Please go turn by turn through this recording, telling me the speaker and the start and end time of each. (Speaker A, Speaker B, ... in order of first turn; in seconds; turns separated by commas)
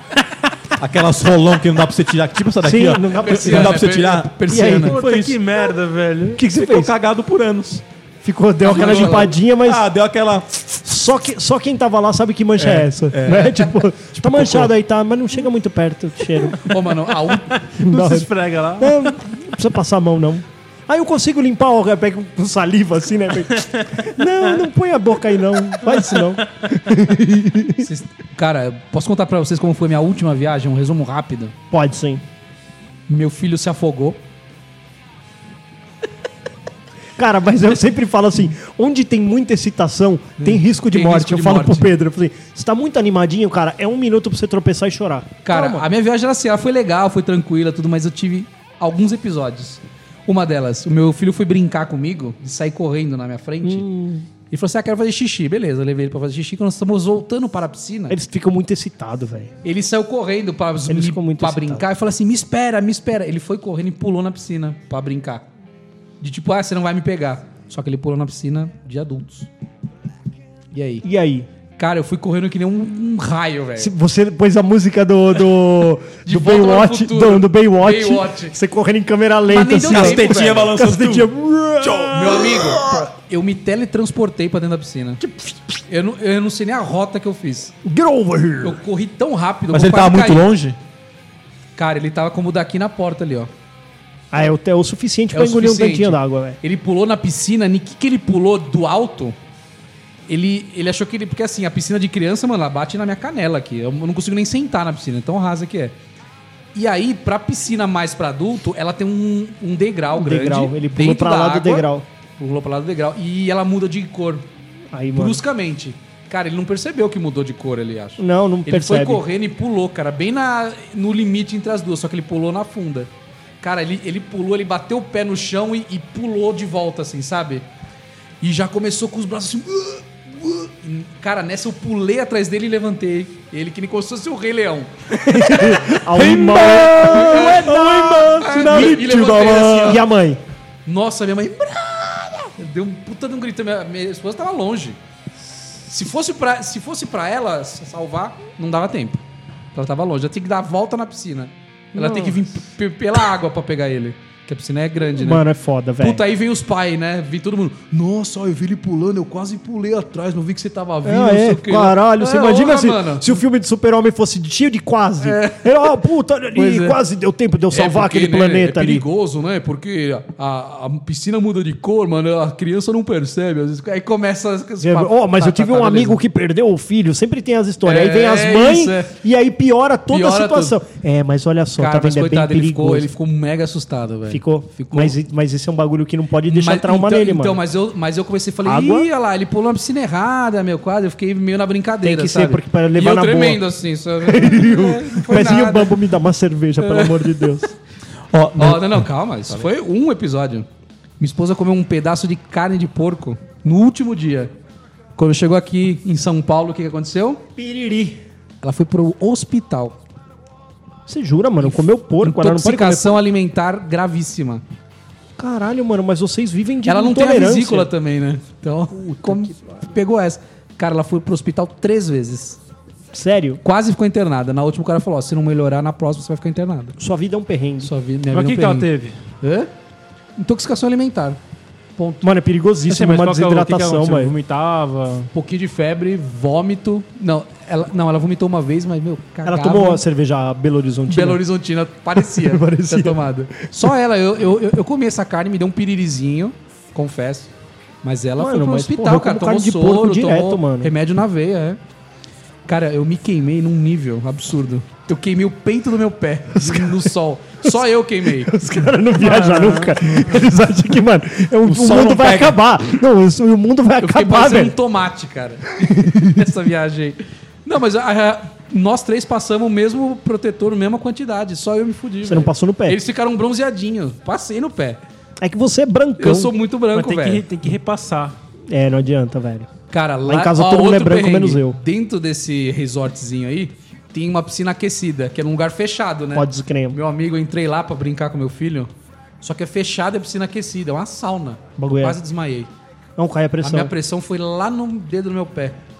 Speaker A: 0.7-5.4, Speaker B: 2.6-3.9, Speaker C: 3.1-5.0, Speaker B: 4.5-5.0, Speaker D: 4.8-6.4, Speaker B: 6.3-6.9, Speaker A: 6.5-7.8, Speaker B: 8.2-9.8, Speaker C: 8.6-9.3, Speaker A: 8.7-10.7, Speaker B: 10.7-16.7, Speaker A: 12.6-14.7, Speaker C: 16.6-17.7, Speaker D: 17.7-19.1, Speaker B: 17.8-27.9, Speaker C: 27.8-31.5, Speaker B: 31.7-32.2, Speaker C: 33.1-34.2, Speaker B: 37.2-45.9, Speaker C: 40.4-41.9, Speaker C: 45.4-53.9, Speaker B: 53.6-54.3, Speaker C: 54.5-58.2, Speaker B: 58.1-59.5, Speaker C: 59.6-65.4, Speaker B: 60.9-61.8, Speaker C: 66.2-69.5, Speaker C: 70.7-71.0, Speaker B: 71.0-71.5, Speaker C: 71.8-73.9, Speaker B: 73.8-83.1, Speaker C: 76.2-78.5, Speaker C: 79.5-80.7, Speaker A: 79.8-81.3, Speaker A: 81.8-82.8, Speaker C: 82.1-85.2, Speaker B: 85.2-85.5, Speaker C: 85.9-87.7, Speaker B: 87.8-88.8, Speaker C: 88.6-90.5, Speaker A: 89.7-90.8, Speaker C: 91.8-93.5, Speaker B: 94.3-96.6, Speaker C: 95.3-99.3, Speaker C: 100.3-106.0, Speaker C: 106.7-111.9, Speaker B: 110.1-112.0, Speaker C: 112.4-114.4, Speaker B: 114.9-115.4, Speaker C: 115.1-123.1, Speaker B: 118.2-119.2, Speaker C: 123.6-127.7, Speaker C: 128.4-134.9, Speaker B: 135.1-140.4, Speaker A: 136.1-139.8, Speaker C: 137.0-140.0, Speaker C: 140.8-145.0, Speaker C: 145.8-149.2, Speaker C: 149.7-155.4, Speaker B: 151.9-152.4, Speaker B: 155.1-156.2, Speaker C: 156.0-163.4, Speaker B: 161.0-169.0, Speaker C: 165.2-166.0, Speaker C: 166.5-167.0, Speaker C: 167.7-176.2, Speaker B: 174.8-183.1, Speaker C: 177.8-179.2, Speaker C: 180.1-180.8, Speaker C: 181.8-185.2, Speaker B: 184.3-187.6, Speaker C: 186.5-195.9, Speaker B: 188.6-189.1, Speaker B: 192.0-193.6, Speaker B: 194.2-197.7, Speaker C: 196.8-197.4, Speaker A: 198.3-199.1, Speaker C: 198.6-200.7, Speaker C: 201.2-204.5, Speaker C: 205.2-207.4, Speaker B: 207.6-208.2, Speaker C: 208.6-210.0, Speaker B: 211.1-213.2, Speaker C: 211.6-214.6, Speaker B: 215.4-217.9, Speaker C: 216.8-222.6, Speaker B: 218.9-219.8, Speaker B: 223.1-223.6, Speaker C: 223.6-227.0, Speaker B: 227.0-227.9, Speaker C: 227.8-228.9, Speaker D: 228.3-229.2, Speaker C: 229.4-229.7, Speaker C: 230.4-231.4, Speaker C: 232.0-232.3, Speaker B: 232.2-234.3, Speaker D: 232.9-235.3, Speaker C: 235.3-240.0, Speaker B: 239.4-241.4, Speaker C: 241.1-247.5, Speaker B: 242.2-243.2, Speaker C: 248.0-251.8, Speaker B: 248.4-250.9, Speaker C: 252.7-258.5, Speaker B: 256.5-257.1, Speaker B: 258.3-264.7, Speaker A: 261.6-262.6, Speaker C: 264.0-275.0, Speaker B: 265.8-266.3, Speaker B: 272.2-273.0, Speaker B: 275.4-276.5, Speaker C: 276.2-277.4, Speaker D: 276.9-278.3, Speaker B: 278.7-279.7, Speaker C: 279.9-288.9, Speaker B: 280.2-281.8, Speaker B: 286.3-287.0, Speaker C: 289.4-292.7, Speaker B: 291.8-292.2, Speaker B: 293.2-293.9, Speaker C: 293.6-295.8